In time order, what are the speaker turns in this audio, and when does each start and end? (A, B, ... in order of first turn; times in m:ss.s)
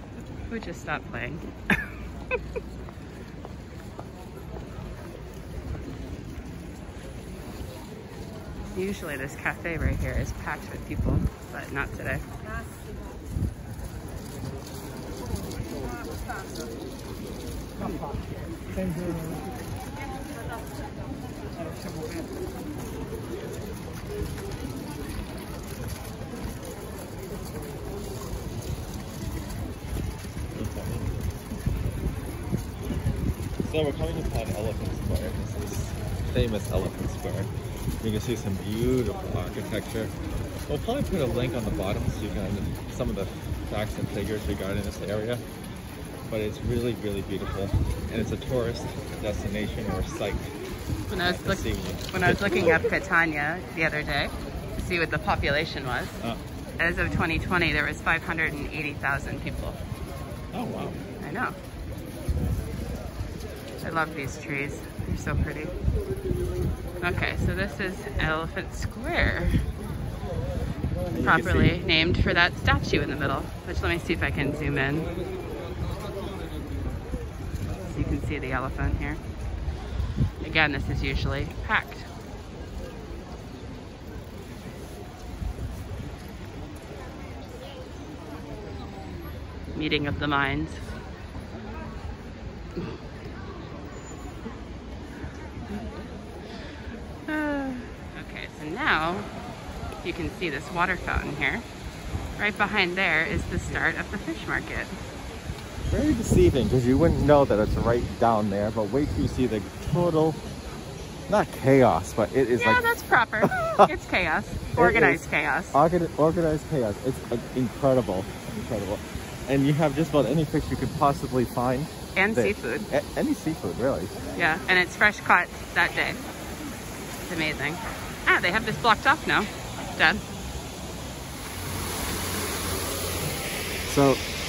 0:00.5-0:01.8 A
0:08.7-0:12.2 A
0:30.5-0:31.2 B
0:33.6-0:40.1 B
0:40.7-0:45.4 B
0:46.3-0:50.5 B
0:51.1-0:56.2 A
0:51.2-0:52.9 B
0:56.8-0:59.8 A
1:00.5-1:01.0 B
1:01.2-1:01.5 A
1:03.8-1:05.7 A
1:07.0-1:09.6 A
1:11.1-1:11.8 B
1:11.2-1:15.1 A
1:17.8-1:19.2 A
1:20.4-1:22.1 A
1:29.7-1:30.9 A
1:35.7-1:35.9 A
1:37.3-1:39.3 A
1:40.0-1:41.6 A
1:42.4-1:45.0 A
1:45.9-1:50.4 B
1:51.3-1:52.8 B
1:52.6-1:55.8 A
1:53.4-1:53.9 B
1:54.8-2:04.1 B
2:02.2-2:02.9 A
2:04.4-2:06.2 A
2:07.2-2:10.2 A
2:13.9-2:14.2 B